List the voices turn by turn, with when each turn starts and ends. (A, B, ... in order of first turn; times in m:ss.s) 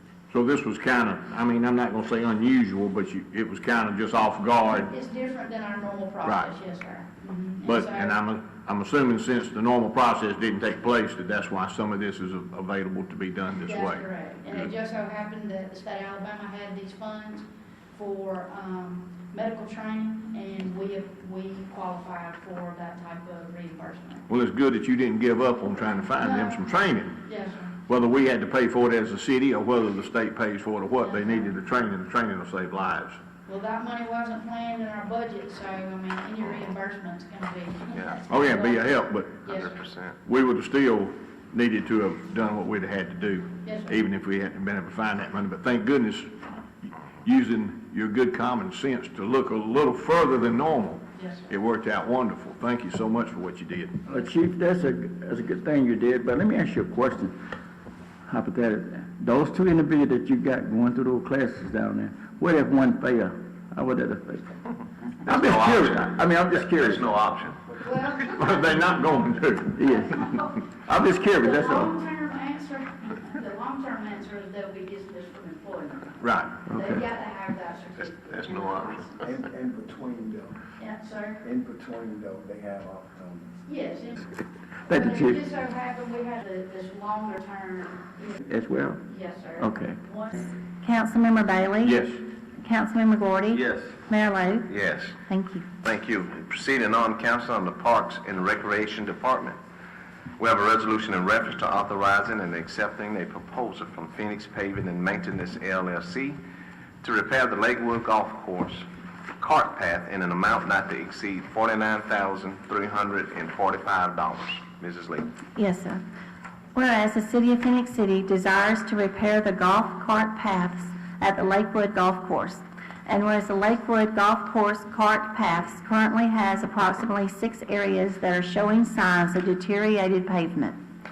0:00.3-0:04.9 A
0:04.8-0:08.2 B
0:06.2-0:06.5 A
0:07.6-0:14.7 A
0:13.6-0:24.2 B
0:24.3-0:27.2 A
0:26.2-0:26.7 B
0:27.2-0:27.7 B
0:27.9-0:33.2 A
0:31.0-0:31.6 B
0:33.5-0:39.7 B
0:38.0-0:38.2 C
0:38.3-0:39.4 A
0:39.5-0:40.2 C
0:40.2-0:46.3 A
0:43.6-0:44.0 B
0:47.2-0:54.0 A
0:51.2-0:51.5 B
0:54.0-0:57.4 D
0:58.3-1:04.6 D
1:05.2-1:07.7 C
1:05.3-1:07.1 D
1:07.8-1:09.0 B
1:08.4-1:09.8 A
1:09.8-1:10.6 B
1:09.8-1:10.2 D
1:10.9-1:11.9 D
1:11.2-1:19.2 B
1:16.2-1:16.6 A
1:18.3-1:19.1 C
1:19.2-1:20.6 E
1:20.8-1:21.4 B
1:21.4-1:23.5 E
1:23.7-1:24.3 B
1:24.9-1:30.5 B
1:24.9-1:25.4 D
1:28.5-1:29.0 D
1:29.6-1:30.0 D
1:30.8-1:35.7 F
1:31.8-1:32.2 A
1:33.5-1:34.0 D
1:34.7-1:35.2 C
1:35.8-1:39.6 C
1:40.4-1:46.4 C
1:47.0-1:48.8 C
1:49.4-1:55.3 C
1:55.6-1:56.0 F
1:56.8-2:10.8 F